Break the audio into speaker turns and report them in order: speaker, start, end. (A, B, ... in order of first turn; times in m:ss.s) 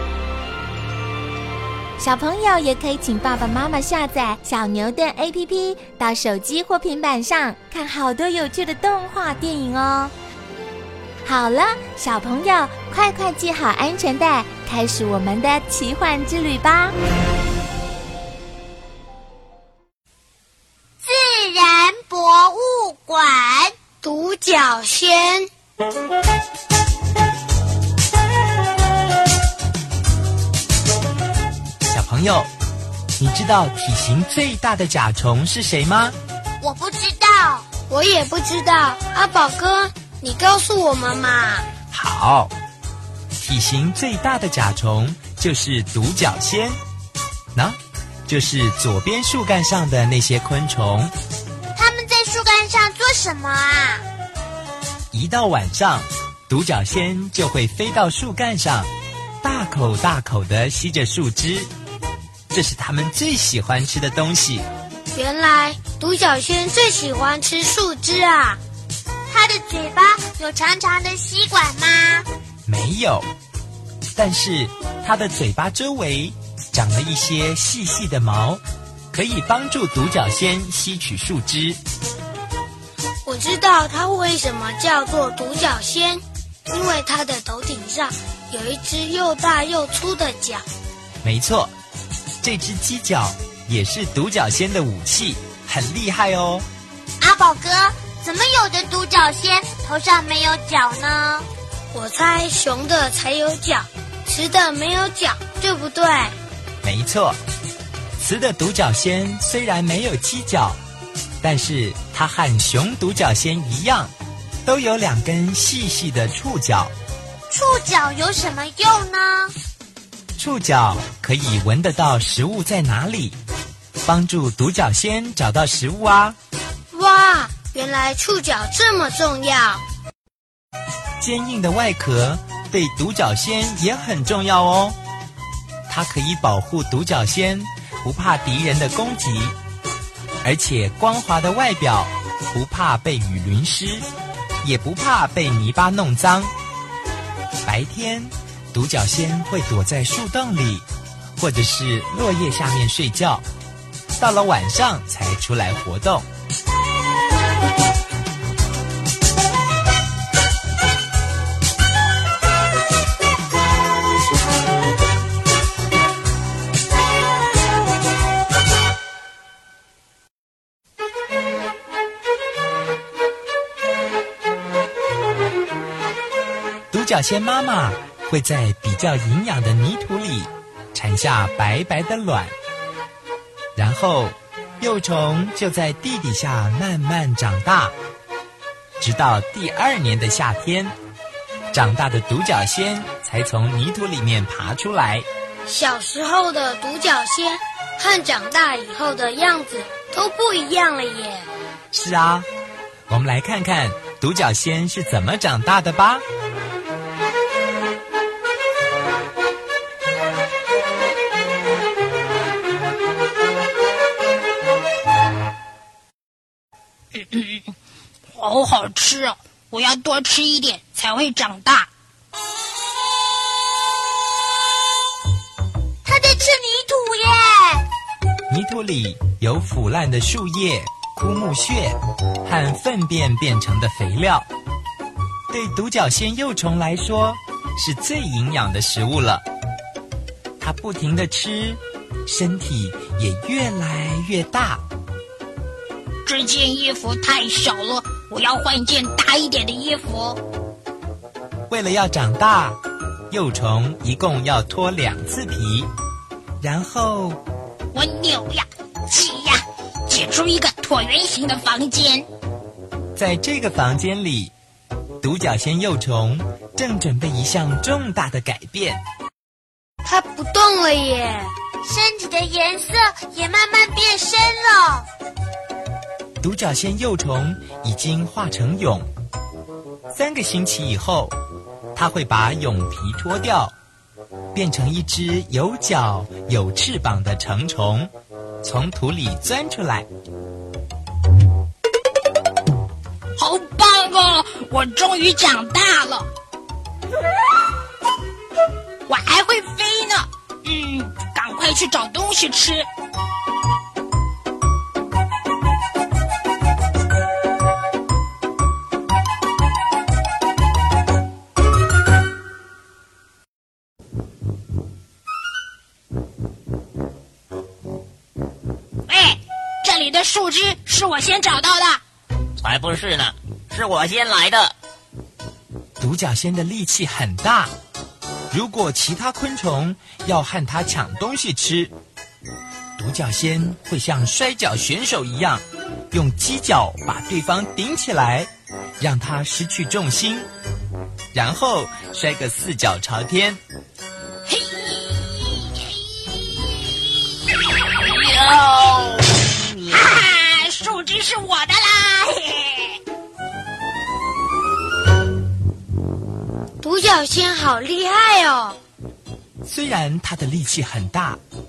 0:02.0-0:10.1 A
0:11.2-0:16.9 A
0:21.0-0:23.7 B
0:24.0-0:25.5 C
0:31.9-0:32.5 D
0:33.2-0:36.2 D
0:36.6-0:37.7 B
0:37.8-0:41.7 C
0:41.9-0:42.5 D
0:43.4-0:46.8 D
0:47.5-0:51.1 D
0:51.7-0:54.0 B
0:55.1-0:58.9 D
0:59.4-1:01.7 D
1:02.5-1:04.7 D
1:05.1-1:08.6 C
1:09.3-1:12.3 B
1:12.7-1:13.3 D
1:14.2-1:21.8 D
1:23.2-1:30.6 C
1:31.2-1:31.7 D
1:32.4-1:36.7 D
1:37.2-1:41.5 B
1:41.9-1:46.4 C
1:46.8-1:47.4 D
1:48.2-1:50.8 D
1:51.4-1:54.1 D
1:54.6-1:56.9 D
1:57.5-1:59.5 B
2:00.4-2:03.4 D
2:04.0-2:06.4 D
2:06.9-2:09.8 C
2:11.2-2:15.0 D
2:15.9-2:19.6 D
2:20.4-2:24.1 D
2:24.6-2:26.5 D
2:27.6-2:30.8 D
2:31.4-2:33.4 D
2:34.2-2:36.3 D
2:56.9-3:02.5 D
3:03.8-3:08.0 D
3:09.0-3:11.0 D
3:11.7-3:15.3 D
3:15.7-3:21.5 C
3:21.9-3:22.5 D
3:23.1-3:26.2 D
3:37.1-3:37.8 E
3:38.3-3:41.9 E
3:46.0-3:47.9 B
3:48.5-3:54.5 D
3:55.5-3:59.4 D
4:00.6-4:04.8 D
4:06.3-4:10.4 E
4:11.7-4:12.8 D
4:13.3-4:15.9 D
4:16.6-4:17.4 D
4:17.9-4:22.3 E
4:23.2-4:24.5 D
4:25.2-4:29.0 D
4:30.0-4:31.5 C
4:31.8-4:35.1 B
4:36.4-4:39.1 D
4:40.1-4:41.4 D
4:41.9-4:43.7 D
4:44.5-4:48.1 D
4:48.6-4:50.1 D
4:53.4-4:56.3 E
4:59.1-5:02.9 E
5:19.1-5:22.0 E
5:22.6-5:24.8 F
5:26.0-5:27.7 D
5:28.5-5:31.9 D
5:33.0-5:40.5 D
5:41.3-5:43.6 D
5:44.5-5:46.0 E
5:46.6-5:53.0 E
5:56.8-5:58.8 C
5:59.6-6:01.4 D